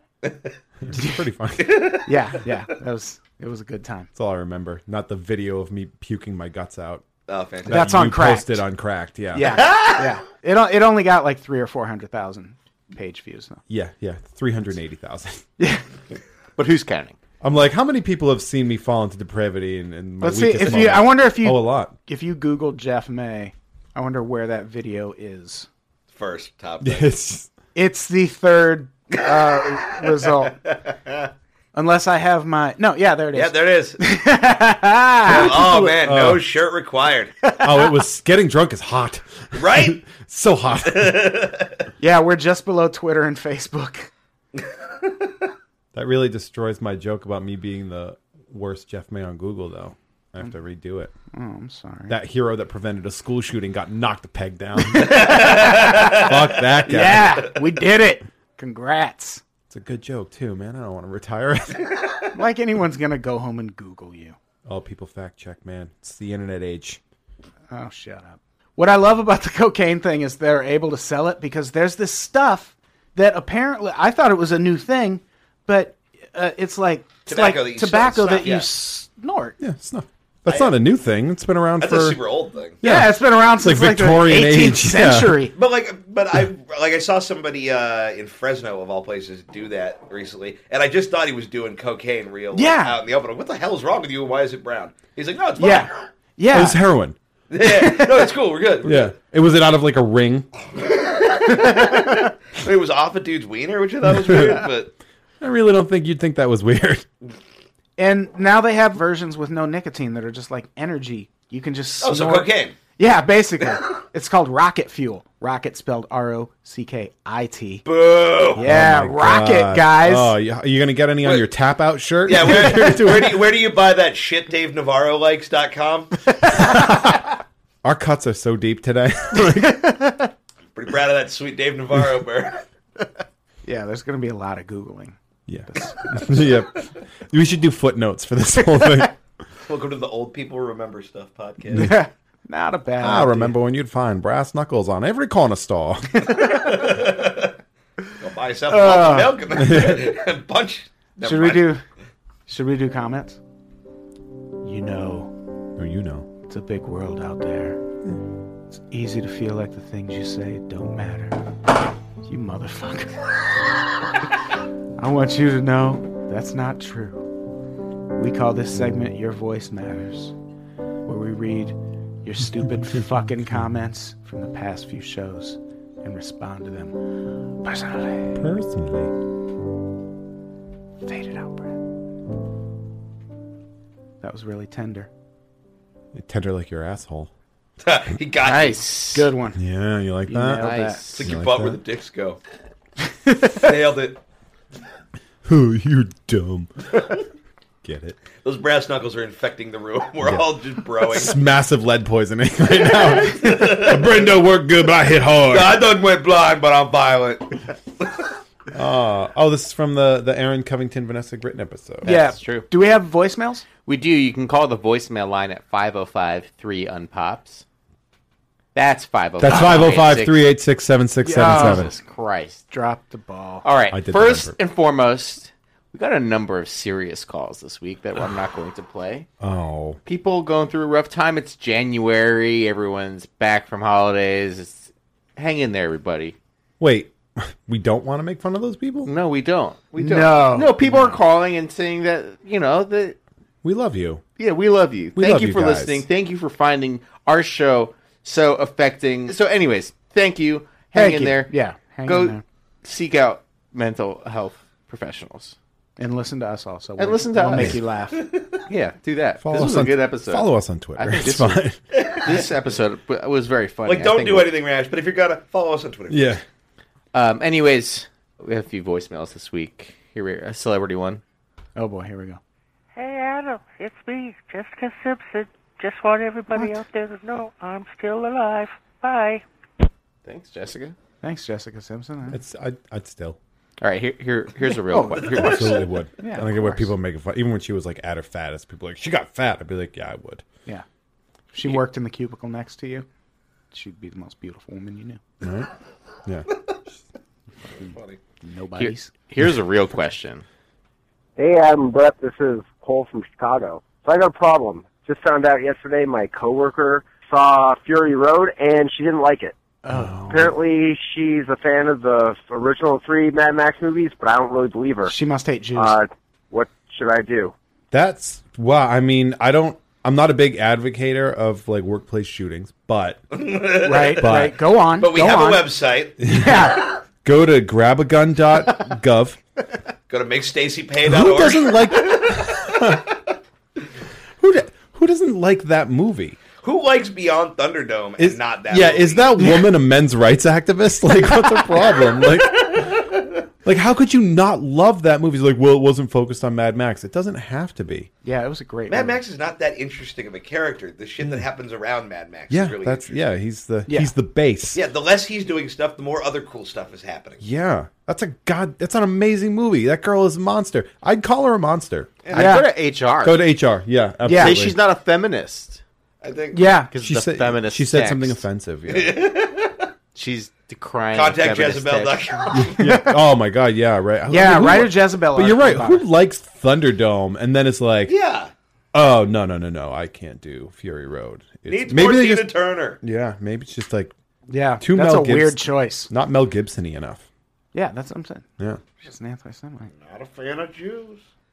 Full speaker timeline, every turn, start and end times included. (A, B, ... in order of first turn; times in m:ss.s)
0:00.2-0:00.6 A
0:00.8-0:02.0 B
0:01.6-0:02.1 A
0:02.0-0:04.1 C
0:04.2-0:07.1 B
0:07.3-0:07.8 A
0:07.6-0:09.7 B
0:07.7-0:08.6 C
0:09.3-0:13.6 C
0:09.5-0:10.1 A
0:13.7-0:15.5 B
0:15.6-0:15.8 C
0:16.6-0:17.2 D
0:17.4-0:21.9 B
0:20.2-0:25.7 C
0:26.1-0:27.1 A
0:26.8-0:27.5 B
0:27.8-0:30.6 C
0:29.5-0:29.9 A
0:30.7-0:31.3 A
0:31.7-0:35.9 C
0:33.3-0:34.0 A
0:35.3-0:37.4 A
0:35.5-0:36.4 B
0:37.5-0:38.0 C
0:37.6-0:41.3 B
0:39.6-0:40.0 A
0:40.8-0:41.9 A
0:42.0-0:44.1 C
0:44.6-0:45.1 A
0:45.9-0:51.1 B
0:51.3-0:52.2 C
0:52.1-0:57.5 B
0:55.0-0:56.4 A
0:55.0-0:56.3 C
0:56.8-0:59.4 C
0:59.7-1:02.0 B
1:02.3-1:04.4 C
1:04.7-1:07.0 B
1:07.7-1:19.6 C
1:17.3-1:18.7 A
1:19.6-1:22.2 B
1:20.5-1:20.7 A
1:21.8-1:22.8 A
1:22.8-1:25.5 B
1:22.8-1:25.6 C
1:25.6-1:36.0 A
1:32.5-1:33.0 C
1:35.6-1:36.8 C
1:36.5-1:37.2 B
1:37.5-1:39.1 A
1:37.6-1:38.4 C
1:38.8-1:40.5 B
1:41.0-1:44.9 A
1:41.5-1:42.3 C
1:44.0-1:44.7 B
1:45.4-1:47.1 B
1:48.0-1:57.8 C
1:52.0-1:52.8 A
1:57.9-1:58.7 A
1:58.6-2:00.4 C
1:58.6-2:03.4 B
2:02.2-2:06.2 A
2:06.4-2:07.1 C
2:06.5-2:07.3 B
2:07.8-2:09.9 B
2:09.3-2:10.3 C
2:10.8-2:12.6 A
2:13.6-2:15.2 C
2:15.5-2:19.2 B
2:15.7-2:16.4 C
2:19.7-2:22.0 A
2:21.8-2:23.6 C
2:23.0-2:26.4 B
2:26.2-2:26.8 C
2:26.3-2:27.5 A
2:28.2-2:31.7 A
2:28.7-2:29.5 C
2:29.5-2:30.2 B
2:31.2-2:31.8 C
2:32.5-2:33.4 C
2:34.6-2:35.3 C
2:35.8-2:36.3 B
2:36.5-2:37.8 C
2:38.7-2:41.4 C
2:42.2-2:43.3 C
2:45.0-2:47.2 C
2:48.1-2:50.4 C
2:51.1-2:57.0 C
2:57.6-2:58.4 C
2:58.4-2:59.1 B
3:01.0-3:01.8 C
3:04.2-3:05.1 C
3:06.1-3:07.3 B
3:07.8-3:08.8 A
3:08.4-3:09.3 D
3:09.1-3:09.6 C
3:09.6-3:11.8 B
3:10.3-3:11.0 C
3:10.6-3:11.3 D
3:11.1-3:12.4 A
3:13.2-3:13.7 C
3:13.5-3:14.2 A
3:15.4-3:17.0 B
3:17.8-3:18.2 B
3:18.4-3:21.4 A
3:20.2-3:25.8 B
3:23.0-3:24.4 A
3:25.5-3:28.3 A
3:28.7-3:32.1 B
3:32.0-3:32.7 D
3:32.0-3:33.6 C
3:33.9-3:37.6 D
3:38.8-3:40.5 D
3:39.4-3:41.9 B
3:41.2-3:42.0 C
3:41.4-3:42.6 D
3:42.7-3:43.6 C
3:43.6-3:49.3 D
3:43.9-3:44.6 B
3:49.4-3:50.0 B
3:50.0-3:56.4 D
3:56.8-3:59.1 B
3:59.0-4:03.2 D
4:00.0-4:01.2 C
4:03.6-4:04.2 B
4:04.4-4:11.5 D
4:05.2-4:06.0 B
4:10.9-4:12.4 C
4:12.1-4:15.6 D
4:16.0-4:18.3 C
4:17.0-4:17.8 D
4:17.5-4:17.8 B
4:18.2-4:18.6 A
4:18.7-4:24.5 D
4:19.4-4:21.8 B
4:22.0-4:22.4 A
4:23.9-4:26.4 A
4:26.1-4:26.4 B
4:27.1-4:31.2 D
4:31.8-4:32.4 C
4:32.9-4:39.4 E
4:36.5-4:36.8 C
4:40.2-4:41.0 D
4:41.2-4:42.4 C
4:42.3-4:43.4 B
4:43.8-4:45.8 D
4:44.9-4:46.9 C
4:45.4-4:50.4 B
4:51.5-4:53.1 C
4:53.7-4:55.2 C
4:55.4-4:55.7 B
4:57.9-4:58.2 A
4:58.4-4:59.1 C
4:58.8-5:00.4 D
5:01.4-5:09.6 F
5:09.8-5:10.5 C
5:09.9-5:10.6 B
5:10.3-5:15.1 F
5:15.1-5:15.9 C
5:15.8-5:17.5 F
5:17.9-5:23.2 B
5:23.3-5:24.3 A
5:23.8-5:27.0 C
5:24.2-5:24.6 B
5:25.0-5:26.2 A
5:26.2-5:29.4 B
5:30.1-5:33.0 A
5:31.0-5:33.1 B
5:34.4-5:36.4 B
5:36.6-5:39.3 A
5:38.2-5:43.1 B
5:43.6-5:48.1 B
5:48.2-5:49.2 C
5:48.9-5:53.2 A
5:52.5-5:54.8 B
5:54.7-5:57.4 A
5:57.4-6:02.3 B
6:02.2-6:02.5 A
6:02.3-6:03.4 D
6:02.3-6:02.7 C
6:03.2-6:04.8 B
6:04.2-6:04.6 C
6:04.3-6:05.8 D
6:06.2-6:06.8 A
6:06.5-6:06.9 C
6:06.9-6:08.4 D
6:07.0-6:09.2 B
6:08.9-6:09.9 A
6:10.2-6:12.4 D
6:11.1-6:12.8 A
6:12.5-6:18.2 B
6:12.8-6:13.2 C
6:14.3-6:16.0 C
6:18.1-6:18.5 A
6:18.9-6:24.1 B
6:21.7-6:23.0 A
6:24.5-6:26.1 C
6:24.8-6:27.2 B
6:27.7-6:28.4 C
6:29.0-6:29.9 C
6:30.0-6:31.2 A